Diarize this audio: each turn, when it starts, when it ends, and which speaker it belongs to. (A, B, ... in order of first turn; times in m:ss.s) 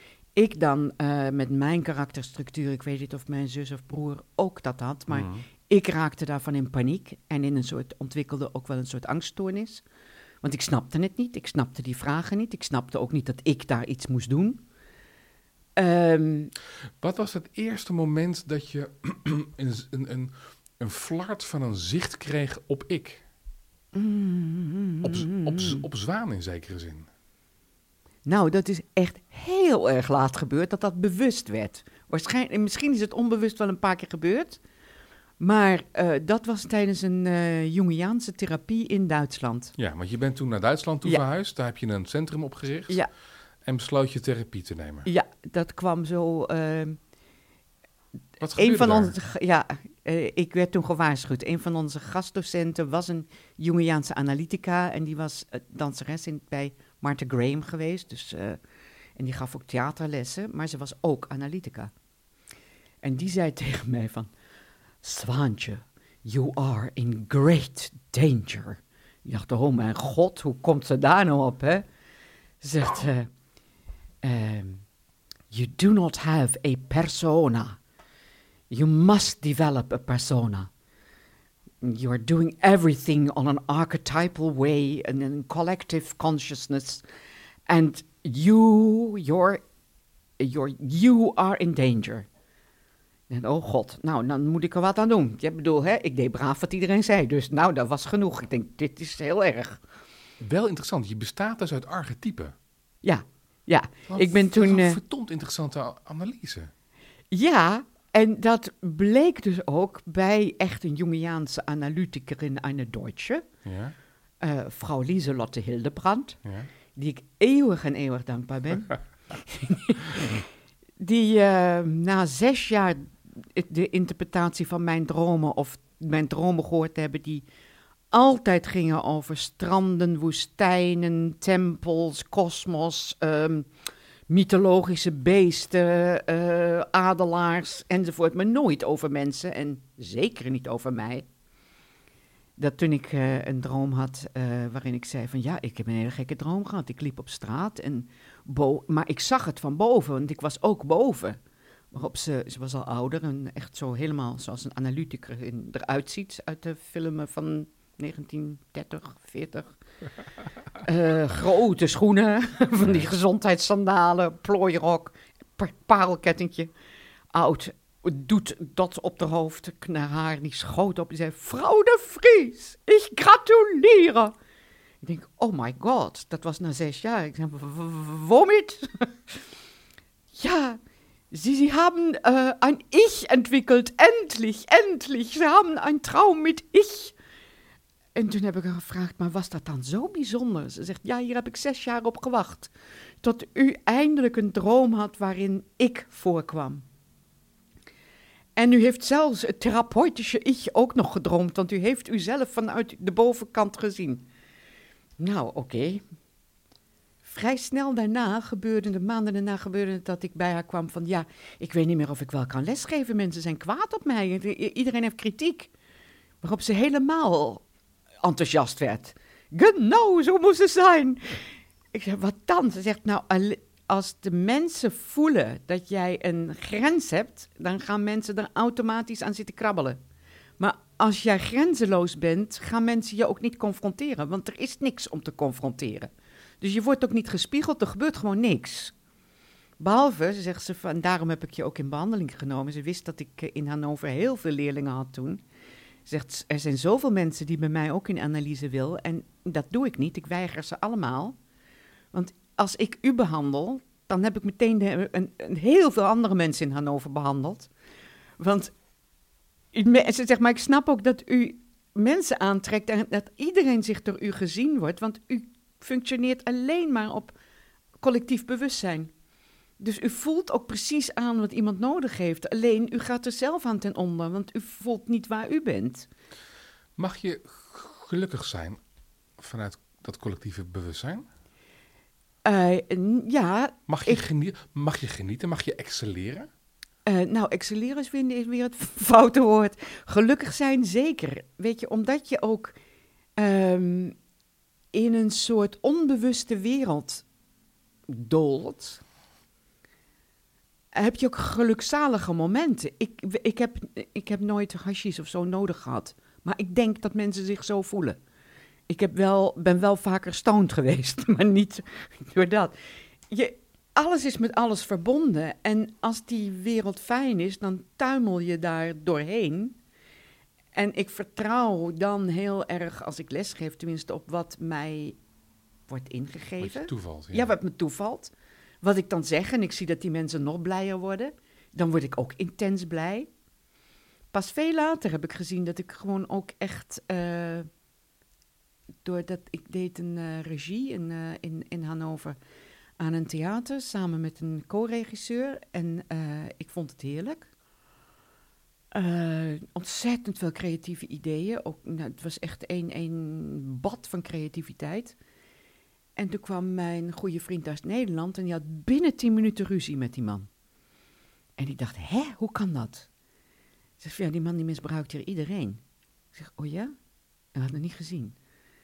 0:00.4-0:09.8 A
0:05.1-0:05.5 B
0:10.4-0:14.6 A
0:15.8-0:16.5 A
0:17.0-0:23.2 B
0:23.9-0:25.9 A
0:25.0-0:27.1 B
0:28.3-0:34.6 A
0:35.4-0:39.7 A
0:39.8-0:43.0 B
0:43.6-0:45.1 B
0:45.0-0:47.0 A
0:48.4-0:49.2 B
0:48.6-0:58.6 A
0:59.2-1:01.9 A
1:03.0-1:04.3 A
1:05.0-1:11.8 A
1:12.6-1:13.3 A
1:14.2-1:14.8 A
1:15.5-1:17.8 A
1:18.7-1:20.7 A
1:21.8-1:27.0 A
1:27.7-1:29.6 A
1:30.4-1:32.3 A
1:33.3-1:39.8 A
1:40.4-1:42.6 B
1:43.0-1:45.0 A
1:44.1-1:46.7 B
1:47.3-1:53.5 A
1:53.6-1:54.0 B
1:54.4-1:56.4 A
1:56.4-1:56.7 B
1:56.9-2:00.5 A
2:01.0-2:07.4 A
2:08.1-2:13.7 A
2:14.3-2:21.3 A
2:22.6-2:31.4 A
2:31.9-2:39.7 A
2:40.8-2:46.7 A
2:47.3-2:54.3 A
2:55.0-2:59.4 A
3:00.3-3:00.8 A
3:01.3-3:07.2 A
3:08.2-3:16.8 A
3:18.6-3:24.2 A
3:25.2-3:26.0 A
3:27.2-3:35.7 A
3:36.4-3:37.6 A
3:38.2-3:50.0 A
3:50.6-3:58.9 A
3:59.8-4:05.4 A
4:06.1-4:11.4 A
4:12.1-4:17.7 A
4:18.4-4:18.7 A
4:19.7-4:27.4 A
4:28.0-4:29.1 A
4:29.8-4:36.1 A
4:37.0-4:38.8 B
4:39.4-4:41.3 B
4:42.4-4:44.2 A
4:43.9-4:46.5 B
4:47.1-4:52.8 A
4:53.4-4:54.2 A
4:54.9-4:57.2 A
4:58.1-4:59.0 A
5:00.9-5:08.2 A
5:08.9-5:12.7 A
5:13.3-5:19.8 A
5:20.7-5:25.2 A
5:25.9-5:33.3 A
5:26.6-5:27.6 B
5:34.3-5:37.7 A
5:39.0-5:42.4 A
5:43.0-5:47.5 A
5:48.9-5:55.2 A
5:56.2-6:00.5 A
6:01.6-6:03.1 A
6:04.0-6:05.8 A
6:06.3-6:06.9 A
6:07.6-6:08.4 A